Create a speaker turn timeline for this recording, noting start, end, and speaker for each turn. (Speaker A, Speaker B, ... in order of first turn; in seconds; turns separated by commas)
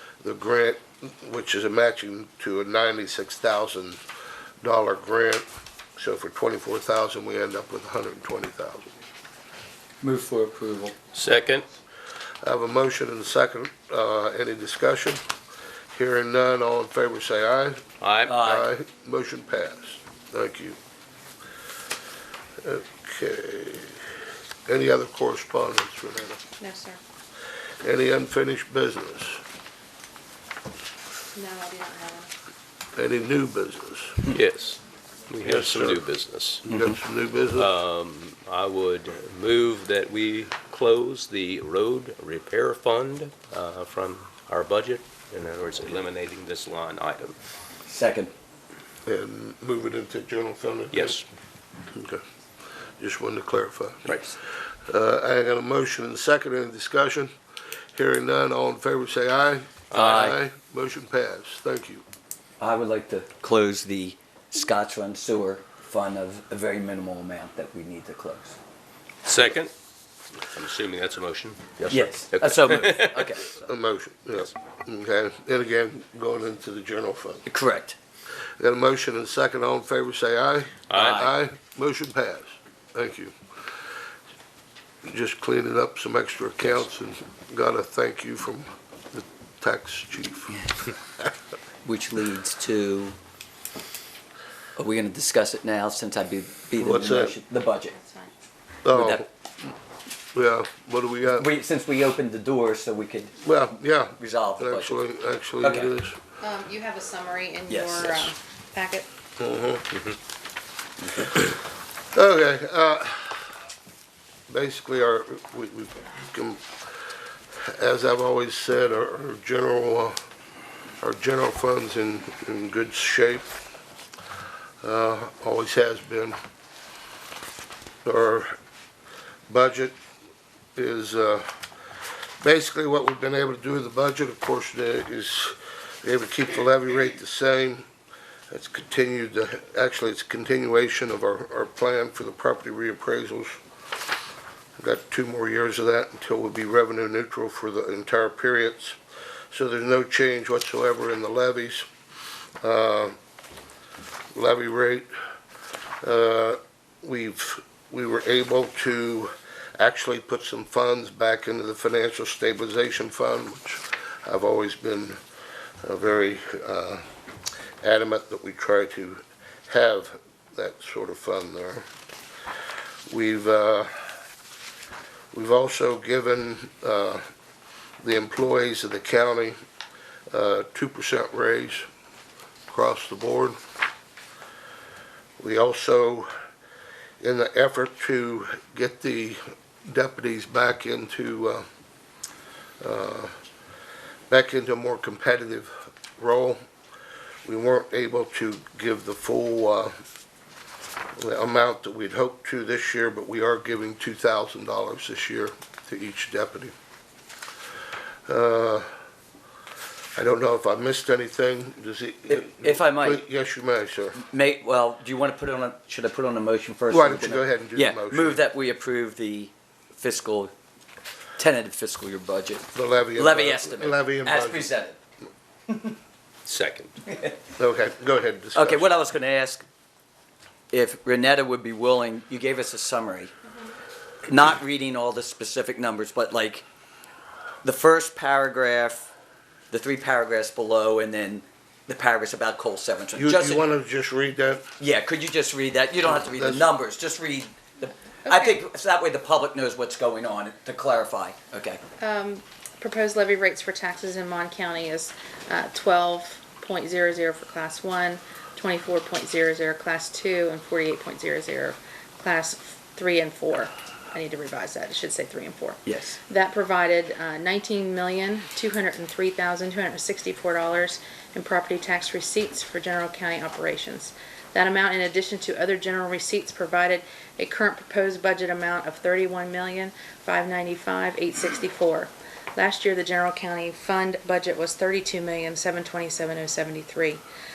Speaker A: 0.2-4.0, Speaker A: 4.6-5.5, Speaker A: 6.0-8.9, Speaker B: 10.0-10.9, Speaker C: 11.1-11.7, Speaker A: 12.4-15.2, Speaker A: 15.9-20.8, Speaker C: 18.0-18.4, Speaker B: 18.3-18.7, Speaker A: 22.6-24.0, Speaker A: 24.7-26.4, Speaker D: 26.6-27.0, Speaker A: 27.8-29.4, Speaker D: 31.3-32.3, Speaker A: 33.0-34.3, Speaker C: 34.3-36.7, Speaker A: 35.4-36.0, Speaker A: 36.6-37.7, Speaker B: 36.7-37.0, Speaker C: 37.5-47.4, Speaker B: 47.9-48.3, Speaker A: 49.0-51.2, Speaker C: 50.9-51.2, Speaker A: 51.9-52.2, Speaker A: 53.0-54.1, Speaker A: 54.9-57.3, Speaker A: 58.0-62.0, Speaker C: 59.9-60.2, Speaker B: 59.9-60.4, Speaker B: 62.6-68.6, Speaker C: 69.2-69.7, Speaker C: 70.5-73.3, Speaker B: 71.9-73.6, Speaker A: 73.5-77.4, Speaker B: 77.5-78.0, Speaker A: 78.6-83.3, Speaker C: 80.9-81.2, Speaker B: 80.9-81.3, Speaker A: 85.0-90.6, Speaker B: 91.8-93.2, Speaker B: 94.8-97.9, Speaker A: 96.8-97.4, Speaker D: 97.9-98.3, Speaker A: 98.8-99.7, Speaker B: 98.9-99.2, Speaker A: 100.3-101.5, Speaker B: 101.3-103.5, Speaker A: 103.4-106.2, Speaker B: 104.1-105.0, Speaker B: 105.6-105.9, Speaker D: 106.4-109.1, Speaker B: 107.7-108.3, Speaker A: 109.4-109.9, Speaker A: 111.2-111.5, Speaker A: 112.1-113.5, Speaker A: 114.5-116.7, Speaker A: 117.7-120.2, Speaker A: 121.0-123.5, Speaker A: 124.8-126.4, Speaker A: 128.0-128.6, Speaker A: 129.5-130.0, Speaker A: 130.8-131.6, Speaker A: 132.4-137.9, Speaker A: 138.5-143.6, Speaker A: 144.8-149.0, Speaker A: 149.5-151.9, Speaker A: 152.6-153.2, Speaker A: 154.3-155.1, Speaker A: 156.0-165.2, Speaker A: 165.8-167.0, Speaker A: 167.8-171.9, Speaker A: 173.1-174.1, Speaker A: 175.3-177.2, Speaker A: 178.0-179.6, Speaker A: 180.3-181.9, Speaker A: 182.7-183.6, Speaker A: 185.4-186.3, Speaker A: 187.2-191.7, Speaker A: 192.8-193.3, Speaker A: 194.3-196.6, Speaker A: 197.4-199.9, Speaker A: 201.2-206.7, Speaker A: 208.3-208.9, Speaker A: 210.2-214.2, Speaker B: 212.3-213.2, Speaker B: 214.1-220.5, Speaker A: 216.9-218.4, Speaker B: 221.4-225.0, Speaker A: 222.8-224.7, Speaker C: 226.4-227.0, Speaker A: 227.6-228.9, Speaker B: 228.5-229.6, Speaker B: 230.7-233.3, Speaker B: 234.2-236.6, Speaker B: 237.6-239.1, Speaker B: 239.7-243.7, Speaker A: 243.1-244.7, Speaker B: 244.8-251.8, Speaker A: 246.1-246.7, Speaker D: 248.2-248.6, Speaker D: 252.0-287.2, Speaker B: 265.9-266.2